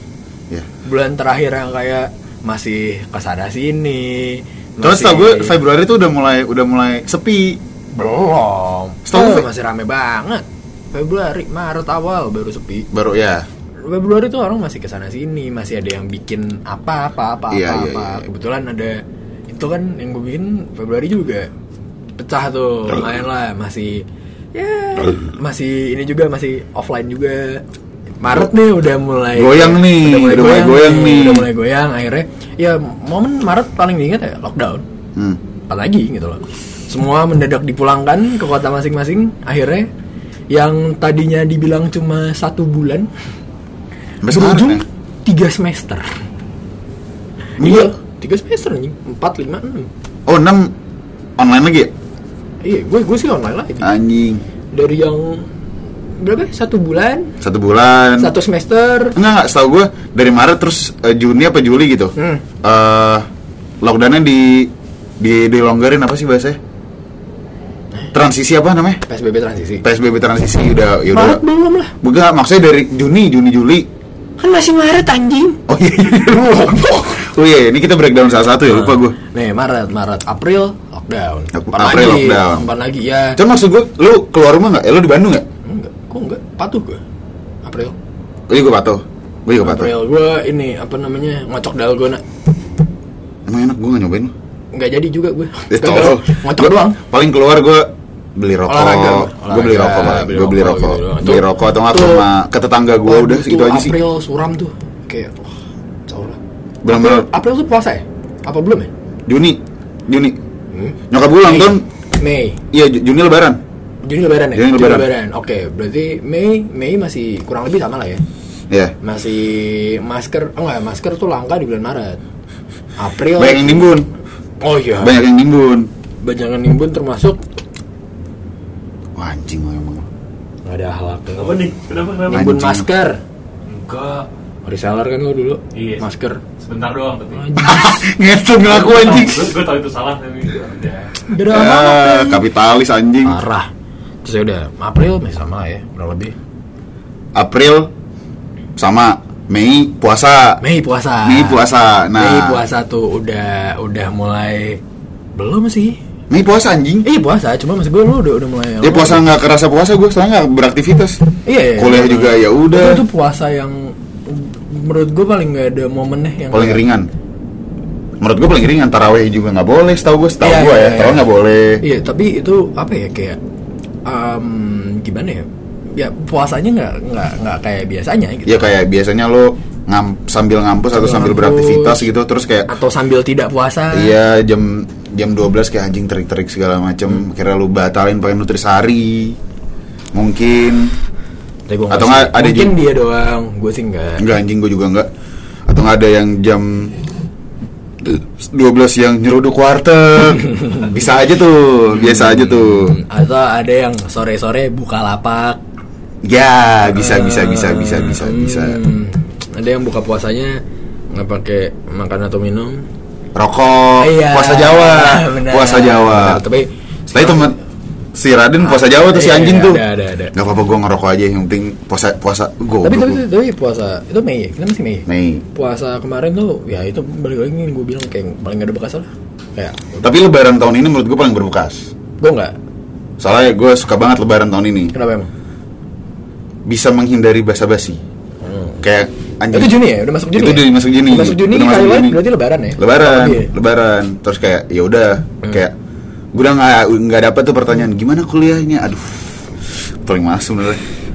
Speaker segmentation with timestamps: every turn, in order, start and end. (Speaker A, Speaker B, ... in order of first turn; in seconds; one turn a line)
Speaker A: 0.8-5.6
Speaker B: 4.8-7.6
Speaker A: 7.9-12.9
Speaker B: 9.0-9.5
Speaker B: 12.9-13.5
Speaker A: 13.8-21.5
Speaker B: 17.5-18.2
Speaker A: 22.1-27.6
Speaker A: 28.2-34.9
Speaker B: 29.3-31.5
Speaker A: 35.7-39.9
Speaker A: 40.5-43.1
Speaker B: 44.2-44.8
Speaker A: 44.3-46.2
Speaker A: 47.6-49.9
Speaker B: 47.6-47.9
Speaker B: 50.3-50.7
Speaker B: 51.4-51.9
Speaker A: 52.6-53.9
Speaker B: 53.8-54.4
Speaker A: 54.7-55.5
Speaker A: 56.1-57.3
Speaker B: 57.4-58.3
Speaker A: 58.2-59.1
Speaker B: 59.1-63.3
Speaker A: 62.2-62.4
Speaker B: 63.8-66.6
Speaker B: 68.1-69.0
Speaker A: 69.0-69.8
Speaker B: 69.8-71.4
Speaker A: 71.1-71.9
Speaker B: 72.0-73.9
Speaker A: 74.4-77.3
Speaker B: 75.7-79.2
Speaker A: 78.7-83.4
Speaker B: 81.5-82.7
Speaker B: 83.3-85.4
Speaker A: 85.6-87.0
Speaker A: 87.6-88.0
Speaker B: 88.5-89.9
Speaker A: 89.6-92.2
Speaker B: 93.5-94.3
Speaker A: 94.7-97.0
Speaker B: 95.7-104.0
Speaker A: 98.7-102.3
Speaker A: 103.0-108.9
Speaker B: 106.8-107.3
Speaker B: 109.3-110.4
Speaker A: 110.7-112.6
Speaker B: 111.1-111.8
Speaker B: 112.7-113.6
Speaker A: 114.0-118.2
Speaker B: 114.5-115.1
Speaker B: 118.7-118.9
Speaker A: 119.0-122.2
Speaker A: 123.0-124.0
Speaker B: 123.3-124.1
Speaker A: 124.6-125.2
Speaker B: 125.0-125.9
Speaker A: 126.2-127.4
Speaker B: 129.2-130.1
Speaker A: 130.6-133.2
Speaker C: 131.3-132.4
Speaker B: 132.3-132.9
Speaker C: 133.7-134.3
Speaker A: 134.6-136.4
Speaker C: 135.7-137.5
Speaker A: 137.3-138.1
Speaker B: 137.6-139.5
Speaker C: 138.6-141.1
Speaker A: 141.2-142.5
Speaker B: 141.4-143.4
Speaker A: 143.2-143.7
Speaker A: 144.2-146.3
Speaker B: 147.3-147.9
Speaker B: 148.8-150.6
Speaker A: 150.6-154.8
Speaker B: 151.2-152.6
Speaker A: 155.3-156.0
Speaker B: 156.3-157.1
Speaker A: 157.0-159.3
Speaker B: 158.8-161.2
Speaker A: 161.4-166.8
Speaker B: 161.8-163.0
Speaker B: 166.5-167.1
Speaker B: 168.2-171.8
Speaker A: 170.4-171.3
Speaker A: 171.8-173.4
Speaker A: 174.1-178.7
Speaker B: 178.4-182.7
Speaker A: 180.9-182.1
Speaker A: 182.7-184.2
Speaker B: 183.9-189.4
Speaker B: 190.1-190.9
Speaker A: 191.7-194.3
Speaker B: 191.9-192.7
Speaker B: 194.2-195.1
Speaker B: 195.7-196.9
Speaker B: 198.0-203.0
Speaker A: 200.3-201.3
Speaker A: 201.9-205.6
Speaker B: 206.2-208.8
Speaker A: 206.8-210.6
Speaker A: 211.1-212.8
Speaker B: 213.3-216.4
Speaker A: 214.0-217.5
Speaker B: 217.1-217.6
Speaker B: 218.1-223.2
Speaker A: 218.6-220.3
Speaker A: 222.8-230.0
Speaker B: 225.1-225.4
Speaker B: 230.0-231.9
Speaker A: 232.2-232.6
Speaker B: 233.2-234.9
Speaker A: 234.9-235.3
Speaker B: 236.7-238.0
Speaker A: 238.4-238.8
Speaker B: 238.8-239.7
Speaker A: 239.5-243.5
Speaker B: 240.3-242.2
Speaker B: 242.8-245.7
Speaker B: 246.3-249.4
Speaker B: 250.0-250.8